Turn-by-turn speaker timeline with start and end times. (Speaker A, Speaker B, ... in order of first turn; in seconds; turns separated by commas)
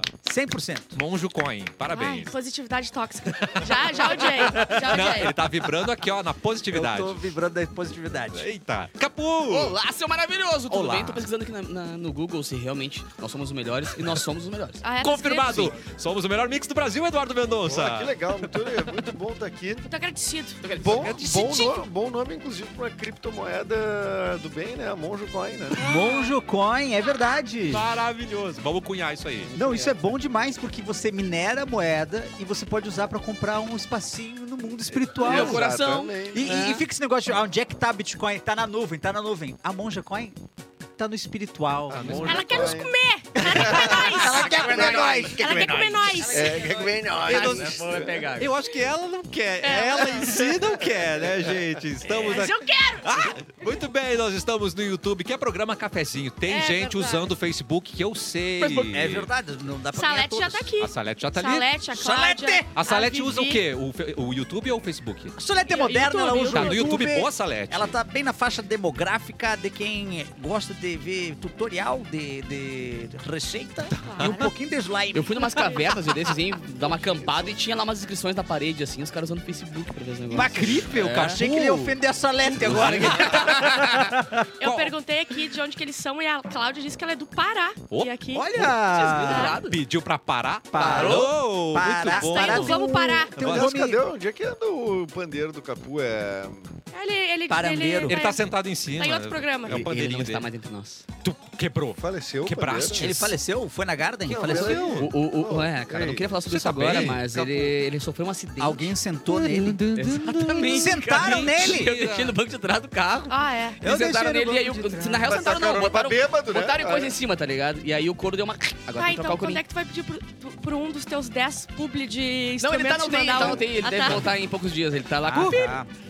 Speaker A: 0.2-1.0, Speaker B: 0.9-2.3, Speaker C: 1.9-5.4, Speaker B: 4.5-7.2, Speaker A: 6.7-8.5, Speaker B: 8.3-9.8, Speaker D: 9.5-14.8, Speaker B: 10.7-11.3, Speaker C: 14.8-15.8, Speaker B: 15.0-18.1, Speaker E: 17.7-19.9, Speaker C: 19.9-21.8, Speaker D: 20.6-21.1, Speaker E: 20.7-25.8, Speaker C: 25.8-26.3, Speaker A: 25.8-27.9, Speaker B: 27.7-29.5, Speaker A: 29.5-35.7, Speaker E: 29.6-29.9, Speaker E: 35.2-36.6, Speaker D: 35.2-36.8, Speaker A: 36.3-40.4, Speaker A: 41.0-42.5, Speaker B: 41.9-42.8, Speaker E: 42.0-48.1, Speaker C: 42.2-44.5, Speaker A: 43.4-46.5, Speaker D: 44.3-45.3, Speaker C: 45.4-46.6, Speaker D: 46.1-48.5, Speaker B: 47.3-47.9, Speaker B: 48.4-59.3, Speaker C: 49.6-50.3, Speaker C: 52.2-53.1, Speaker C: 56.5-57.3, Speaker A: 58.6-60.7, Speaker C: 59.9-63.6, Speaker B: 60.8-61.7, Speaker A: 61.9-62.7, Speaker B: 62.7-65.3, Speaker A: 65.4-75.7, Speaker C: 65.7-67.0, Speaker B: 66.5-67.9, Speaker C: 74.0-74.4, Speaker B: 74.0-74.5, Speaker D: 75.1-81.4, Speaker C: 75.6-75.9, Speaker E: 77.0-77.4, Speaker A: 80.3-84.5, Speaker B: 80.6-82.0, Speaker D: 82.6-84.1, Speaker B: 82.6-83.4, Speaker C: 84.6-88.6, Speaker B: 84.6-84.9, Speaker B: 87.9-88.7, Speaker A: 88.3-89.6, Speaker D: 88.9-89.8, Speaker C: 89.2-89.6, Speaker B: 89.7-92.8, Speaker A: 90.7-94.0, Speaker D: 90.8-91.3, Speaker C: 92.1-93.4, Speaker B: 93.4-93.8, Speaker E: 93.4-96.8, Speaker C: 96.9-98.4, Speaker A: 97.5-98.2, Speaker B: 98.1-100.5, Speaker C: 99.0-99.8, Speaker D: 99.7-101.0, Speaker B: 101.2-103.3, Speaker E: 102.0-103.1, Speaker A: 103.0-105.0, Speaker E: 104.3-106.2, Speaker B: 104.5-105.1, Speaker D: 105.0-108.9, Speaker B: 106.5-107.7, Speaker A: 108.6-109.8, Speaker B: 109.3-112.3, Speaker D: 109.9-119.6, Speaker A: 110.6-111.9, Speaker C: 113.3-113.8, Speaker A: 113.8-115.3, Speaker E: 115.2-117.2, Speaker C: 119.0-124.3, Speaker D: 122.6-125.8, Speaker A: 125.2-125.9